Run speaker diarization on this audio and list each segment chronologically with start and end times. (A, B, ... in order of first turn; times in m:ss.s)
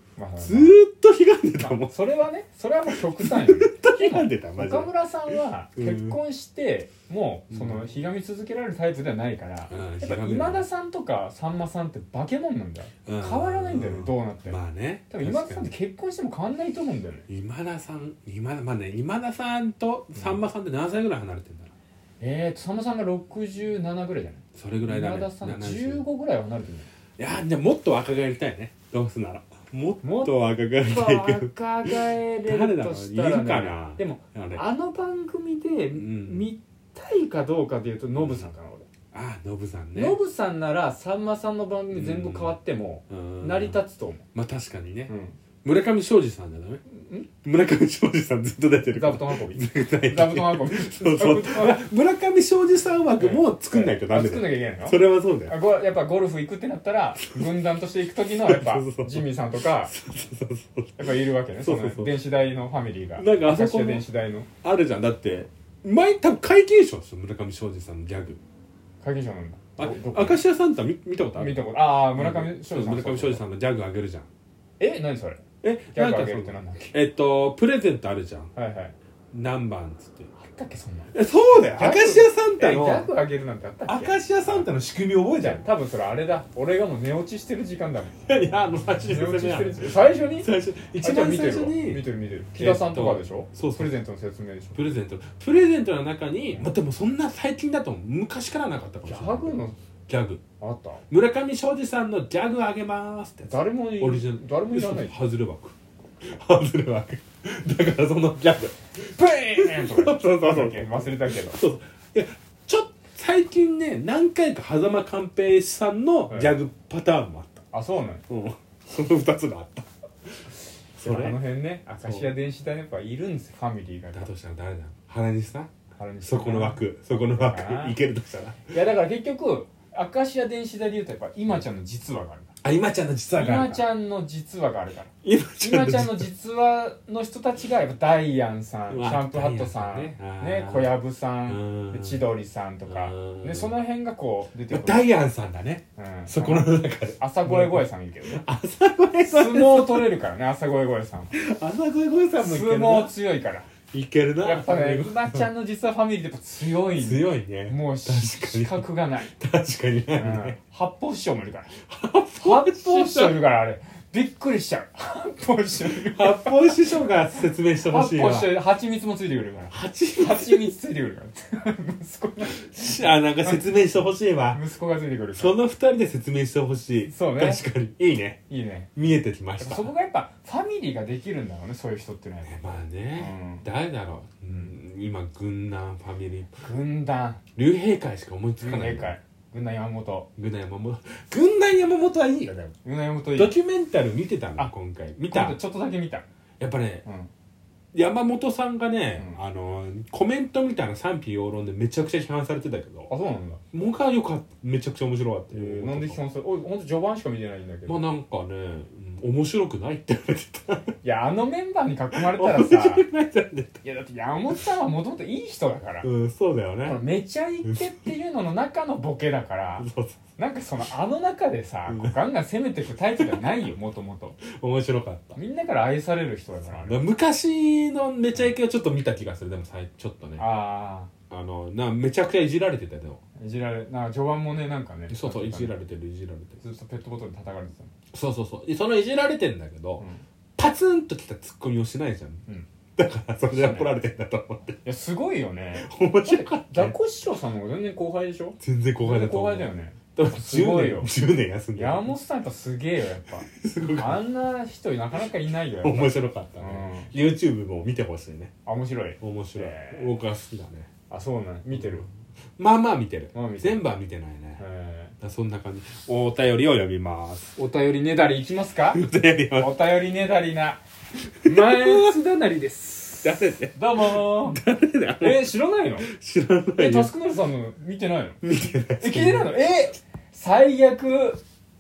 0:00.2-0:00.8 A
0:00.4-0:01.9 B
0:01.6-0:17.3 A
0:02.9-0:06.2 B
0:07.5-0:07.9 B
0:09.7-0:10.6 B
0:13.1-0:15.7 B
0:17.3-0:21.7 B
0:20.2-0:20.4 A
0:22.2-0:26.9 A
0:24.6-0:26.0 B
0:27.2-0:34.6 B
0:30.0-0:30.3 A
0:30.8-0:38.9 A
0:35.9-0:36.5 B
0:38.2-0:38.5 B
0:39.1-0:40.2 B
0:39.9-0:44.2 A
0:41.9-0:42.6 B
0:43.1-0:43.8 B
0:44.4-0:45.1 B
0:45.1-0:45.4 A
0:45.6-0:46.8 B
0:46.9-0:47.3 A
0:47.4-0:55.6 B
0:48.9-0:51.8 A
0:53.1-0:59.9 A
0:57.2-0:57.6 B
0:58.4-0:59.3 B
0:59.8-1:02.2 B
1:01.0-1:04.5 A
1:03.2-1:04.1 B
1:04.6-1:08.4 B
1:09.0-1:10.4 A
1:09.8-1:11.6 B
1:11.4-1:13.4 A
1:12.2-1:14.3 B
1:14.8-1:16.9 A
1:15.6-1:18.5 B
1:18.6-1:18.9 A
1:19.3-1:20.3 B
1:20.4-1:21.1 A
1:21.1-1:23.1 B
1:21.8-1:24.7 A
1:23.9-1:25.6 B
1:25.4-1:28.2 A
1:28.2-1:32.0 B
1:29.0-1:30.5 A
1:31.0-1:34.8 A
1:32.6-1:34.0 B
1:34.8-1:40.4 B
1:39.0-1:39.8 A
1:40.6-1:41.0 A
1:41.1-1:48.8 B
1:43.5-1:45.2 A
1:49.0-1:51.6 A
1:49.6-1:57.6 B
1:57.7-1:58.2 A
1:58.3-1:59.9 B
2:01.0-2:01.4 B
2:01.0-2:04.3 A
2:02.0-2:02.3 B
2:04.1-2:05.7 B
2:06.0-2:08.0 A
2:06.2-2:08.7 B
2:08.7-2:12.5 A
2:12.6-2:13.9 B
2:13.4-2:25.1 A
2:15.2-2:16.3 B
2:18.9-2:20.9 B
2:21.5-2:22.3 B
2:22.9-2:23.8 B
2:24.7-2:30.1 B
2:26.0-2:28.4 A
2:29.3-2:31.3 A
2:31.3-2:33.1 B
2:32.4-2:33.7 A
2:33.9-2:35.5 B
2:34.4-2:39.3 A
2:36.9-2:40.6 B
2:40.2-2:41.7 A
2:41.9-2:43.4 B
2:42.4-2:46.9 A
2:45.9-2:48.6 B
2:47.8-2:52.7 A
2:49.7-2:50.7 B
2:52.5-2:54.6 B
2:54.5-2:55.6 A
2:55.4-2:58.4 B
2:57.1-2:57.6 A
2:58.5-2:58.9 A
2:59.0-2:59.9 B
2:59.6-3:03.6 A
3:02.4-3:06.6 B
3:06.6-3:07.4 A
3:07.6-3:09.1 B
3:08.6-3:10.3 A
3:10.4-3:12.7 B
3:12.8-3:13.6 A
3:13.4-3:15.6 B
3:15.3-3:16.3 A
3:16.6-3:17.0 B
3:17.0-3:17.3 A
3:17.9-3:23.1 B
3:23.1-3:23.6 A
3:23.7-3:26.2 B
3:25.5-3:28.1 A
3:27.9-3:31.0 B
3:31.0-3:33.0 A
3:32.1-3:33.8 B
3:33.8-3:36.1 A
3:36.0-3:37.0 B
3:36.8-3:44.4 A
3:37.6-3:38.0 B
3:39.8-3:40.2 B
3:41.9-3:42.2 B
3:44.5-3:45.4 B
3:45.4-3:47.0 A
3:46.7-3:50.5 B
3:50.4-3:51.1 A
3:51.3-3:53.2 B
3:53.4-3:55.7 A
3:55.1-3:56.6 B
3:56.6-3:57.9 A
3:58.1-4:00.0 B
4:00.0-4:00.2 A
4:00.6-4:02.4 B
4:03.0-4:04.8 B
4:03.5-4:04.0 A
4:04.8-4:11.1 A
4:05.8-4:07.0 B
4:08.6-4:12.2 B
4:11.8-4:17.1 A
4:13.6-4:14.2 B
4:15.8-4:18.5 B
4:18.6-4:20.1 A
4:19.2-4:20.9 B
4:21.1-4:22.1 A
4:21.7-4:22.0 B
4:22.6-4:24.6 B
4:23.3-4:23.8 A
4:24.6-4:25.2 A
4:25.2-4:27.6 B
4:27.6-4:29.0 A
4:28.9-4:29.8 B
4:29.6-4:30.8 A
4:31.4-4:34.6 A
4:31.4-4:32.2 B
4:33.2-4:37.2 B
4:35.2-4:36.1 A
4:36.8-4:38.4 A
4:38.4-4:39.6 B
4:39.0-4:41.4 A